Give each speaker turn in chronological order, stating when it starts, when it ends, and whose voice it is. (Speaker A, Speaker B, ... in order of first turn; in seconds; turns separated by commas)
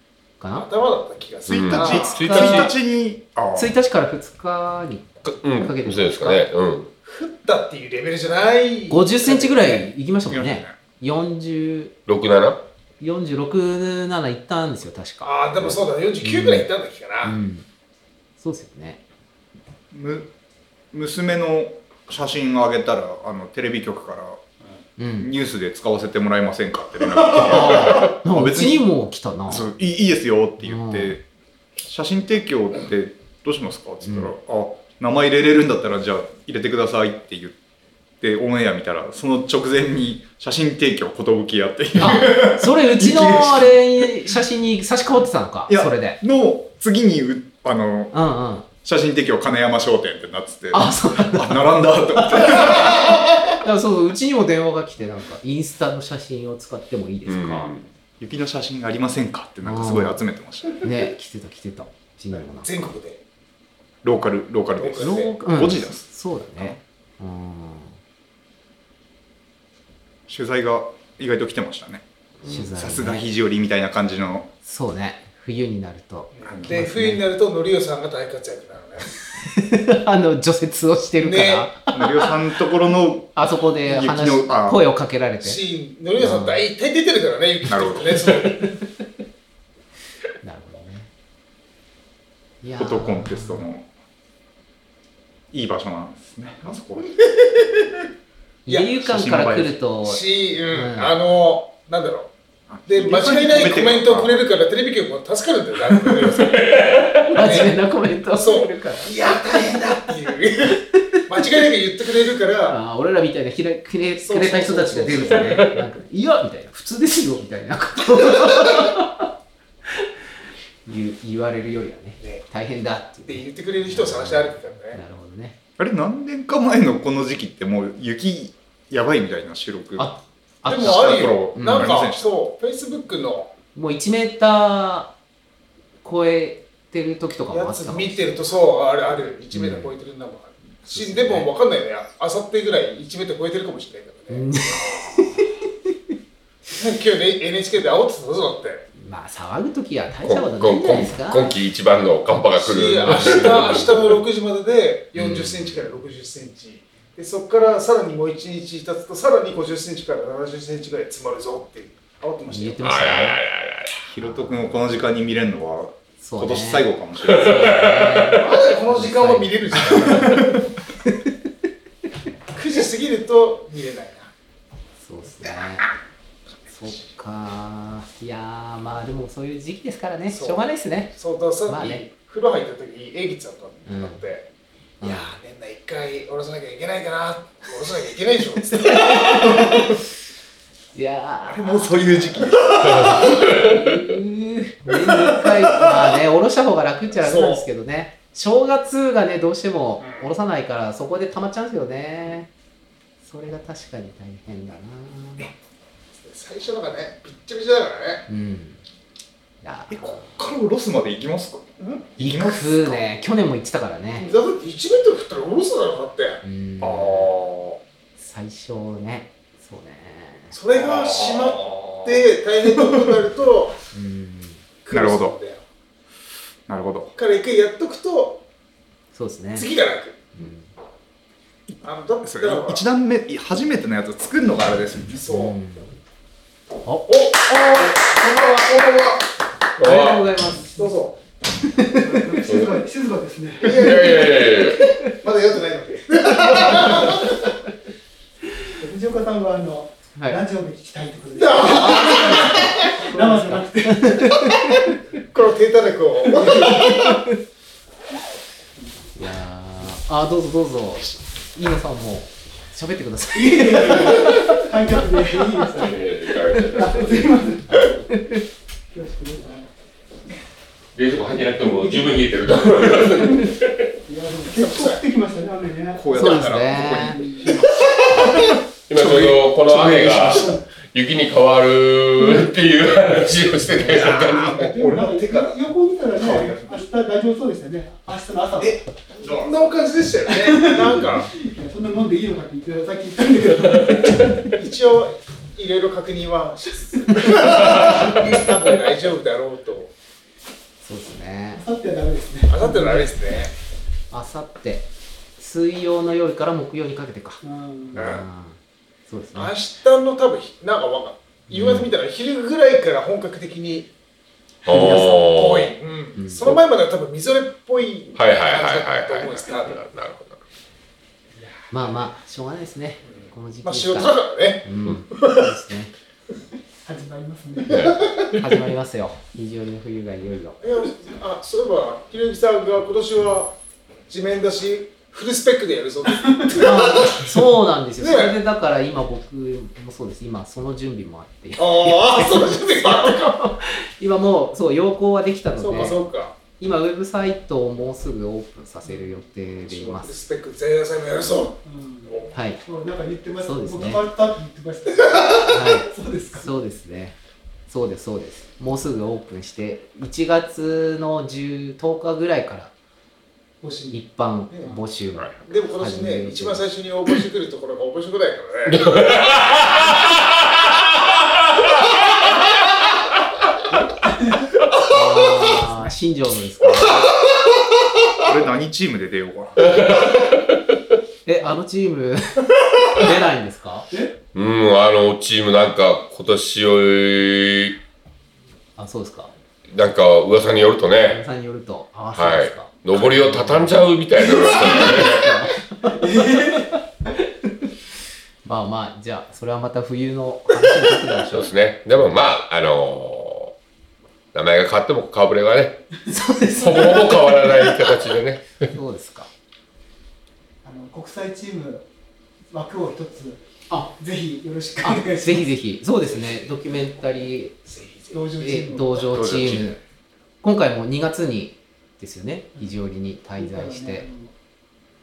Speaker A: 0.4-0.7, Speaker B: 0.5-2.2, Speaker C: 1.4-3.7, Speaker D: 1.5-2.7, Speaker A: 1.9-2.7, Speaker A: 3.5-6.5, Speaker D: 5.2-6.9, Speaker B: 7.0-9.8, Speaker A: 8.9-11.9, Speaker C: 10.2-10.8, Speaker D: 12.1-12.6, Speaker A: 13.0-16.7, Speaker B: 15.2-17.4, Speaker A: 17.2-17.6, Speaker A: 18.4-19.0, Speaker C: 19.9-20.3, Speaker C: 20.9-24.4, Speaker A: 25.0-25.3, Speaker C: 25.2-28.9, Speaker A: 27.4-29.7, Speaker B: 27.4-27.8, Speaker C: 29.5-31.2, Speaker A: 30.6-31.1, Speaker C: 31.8-37.5, Speaker A: 34.0-34.3, Speaker C: 38.2-44.1, Speaker A: 42.0-46.2, Speaker C: 45.7-48.1, Speaker A: 48.1-48.7, Speaker C: 48.8-53.5, Speaker A: 50.7-57.7, Speaker D: 57.2-57.8, Speaker C: 58.2-60.8, Speaker A: 59.6-60.2, Speaker A: 60.8-62.9, Speaker B: 62.3-63.2, Speaker C: 64.0-66.0, Speaker B: 64.8-65.4, Speaker A: 65.0-68.0, Speaker C: 70.3-74.5, Speaker A: 72.4-73.2, Speaker A: 74.6-77.2, Speaker B: 76.3-79.1, Speaker A: 79.4-82.3, Speaker B: 81.2-81.7, Speaker C: 81.9-84.8, Speaker A: 83.3-85.6, Speaker B: 85.4-88.7, Speaker A: 86.2-86.6, Speaker C: 87.7-88.2, Speaker A: 90.4-91.1, Speaker A: 92.6-93.7, Speaker C: 92.8-93.8, Speaker C: 95.5-97.2, Speaker A: 98.7-101.2, Speaker C: 99.0-99.8, Speaker B: 100.0-102.3, Speaker C: 102.7-104.5, Speaker B: 102.9-107.7, Speaker C: 105.9-106.3, Speaker D: 106.5-107.4, Speaker A: 107.3-109.3, Speaker B: 108.3-112.8, Speaker A: 110.9-111.5, Speaker A: 112.6-119.3, Speaker B: 114.2-115.8, Speaker A: 120.8-125.5, Speaker B: 123.3-125.0, Speaker C: 125.8-130.1, Speaker A: 130.0-132.0, Speaker B: 130.7-133.5, Speaker C: 130.7-132.3, Speaker A: 133.7-135.1, Speaker A: 136.0-138.5, Speaker B: 137.5-145.3, Speaker A: 139.5-139.9, Speaker A: 140.9-141.5, Speaker A: 144.3-145.9, Speaker B: 146.7-148.8, Speaker A: 148.9-151.5, Speaker D: 150.2-154.2, Speaker B: 152.5-163.1, Speaker A: 153.1-153.9, Speaker A: 155.2-155.6, Speaker A: 162.5-163.4, Speaker D: 162.8-164.0, Speaker C: 164.1-167.8, Speaker A: 164.2-164.9, Speaker A: 166.2-171.3, Speaker D: 167.2-168.4, Speaker B: 168.3-170.5, Speaker C: 169.9-170.6, Speaker B: 172.5-174.3, Speaker A: 175.0-175.9, Speaker A: 176.7-181.1, Speaker B: 180.3-184.5, Speaker A: 181.7-182.0, Speaker A: 183.8-184.2, Speaker A: 185.0-185.3, Speaker B: 185.0-189.5, Speaker A: 188.7-190.0, Speaker A: 190.9-192.6, Speaker C: 191.5-193.4, Speaker D: 192.8-193.8, Speaker A: 193.4-202.5, Speaker C: 195.4-195.9, Speaker B: 197.1-197.6, Speaker B: 200.0-200.3, Speaker A: 203.2-205.5, Speaker B: 206.2-208.3, Speaker A: 208.3-208.8, Speaker A: 209.6-210.4, Speaker C: 209.9-213.0, Speaker B: 211.8-212.1, Speaker A: 212.2-214.3, Speaker B: 214.2-216.4, Speaker A: 216.4-217.3, Speaker C: 216.8-217.8, Speaker A: 218.2-220.5, Speaker B: 220.5-223.8, Speaker A: 223.9-224.6, Speaker B: 224.8-225.6, Speaker C: 224.9-225.3, Speaker C: 226.7-227.1, Speaker B: 227.1-228.4, Speaker A: 229.1-229.7, Speaker B: 229.5-230.2, Speaker A: 230.3-230.7, Speaker B: 231.8-232.8, Speaker C: 232.2-235.2, Speaker B: 235.2-235.6, Speaker A: 235.3-235.9, Speaker A: 236.8-238.7, Speaker B: 237.1-239.2, Speaker A: 239.8-240.8, Speaker D: 239.8-240.3, Speaker B: 240.8-241.2, Speaker A: 241.6-242.3, Speaker E: 241.9-244.2, Speaker D: 242.4-242.7, Speaker B: 243.6-247.4, Speaker D: 243.6-244.8, Speaker E: 246.7-247.4, Speaker E: 248.8-254.5, Speaker A: 250.1-250.4, Speaker B: 251.3-253.1, Speaker A: 251.6-254.9, Speaker B: 255.3-257.1, Speaker E: 256.4-256.9, Speaker A: 256.6-257.4, Speaker A: 259.1-264.5, Speaker E: 263.3-268.0, Speaker D: 265.6-267.4, Speaker A: 267.9-268.4, Speaker E: 268.9-269.7, Speaker D: 270.9-273.9, Speaker E: 271.8-272.1, Speaker E: 273.0-273.3, Speaker E: 274.1-277.6, Speaker B: 274.5-275.0, Speaker C: 275.9-277.6, Speaker A: 276.1-277.2, Speaker D: 278.9-284.6, Speaker C: 279.0-279.4, Speaker B: 279.2-280.6, Speaker A: 283.7-284.2, Speaker B: 283.9-285.6, Speaker E: 284.1-288.9, Speaker C: 286.2-286.8, Speaker B: 289.1-291.3, Speaker C: 289.2-289.5, Speaker E: 290.3-294.5, Speaker B: 294.5-299.9, Speaker E: 297.1-297.9, Speaker A: 300.8-301.6, Speaker E: 301.5-303.1, Speaker B: 302.5-303.5, Speaker A: 304.1-307.4, Speaker E: 307.4-308.1, Speaker A: 307.9-309.5, Speaker B: 307.9-308.2, Speaker B: 309.3-313.9, Speaker A: 311.5-311.9, Speaker D: 314.6-315.7, Speaker B: 314.6-319.8, Speaker A: 314.7-315.1, Speaker A: 316.1-316.6, Speaker D: 318.1-320.4, Speaker E: 321.4-321.6, Speaker A: 321.7-325.9, Speaker B: 323.1-325.5, Speaker E: 326.8-328.0, Speaker A: 327.7-330.6, Speaker B: 330.6-333.6, Speaker B: 334.1-337.4, Speaker E: 336.1-336.5, Speaker A: 336.5-346.0, Speaker B: 338.0-338.4, Speaker B: 341.6-343.4, Speaker B: 345.6-346.4, Speaker A: 346.6-350.1, Speaker B: 349.7-352.3, Speaker E: 351.6-356.5, Speaker A: 352.3-352.6, Speaker A: 353.4-354.1, Speaker A: 355.5-357.1, Speaker A: 357.7-362.7, Speaker E: 363.6-364.8, Speaker A: 363.9-366.6, Speaker B: 365.4-369.9, Speaker D: 368.6-370.3, Speaker D: 371.5-372.2, Speaker E: 373.9-374.5, Speaker A: 374.8-377.2, Speaker C: 378.2-379.7, Speaker D: 379.6-380.4, Speaker A: 381.2-383.9, Speaker E: 383.9-384.1, Speaker D: 384.3-387.8, Speaker A: 388.8-389.3, Speaker D: 389.7-391.2, Speaker A: 391.1-396.8, Speaker D: 392.1-395.4, Speaker E: 395.8-396.8, Speaker A: 398.4-401.5, Speaker D: 401.3-403.5, Speaker D: 404.3-405.8, Speaker A: 406.1-407.8, Speaker D: 406.5-408.7, Speaker A: 408.7-409.3, Speaker E: 410.6-411.9, Speaker E: 412.5-413.4, Speaker E: 413.9-415.5, Speaker A: 414.8-417.6, Speaker B: 417.7-418.2, Speaker E: 418.1-419.0, Speaker A: 418.4-419.8, Speaker D: 419.0-419.8, Speaker A: 420.4-424.1, Speaker E: 423.4-424.3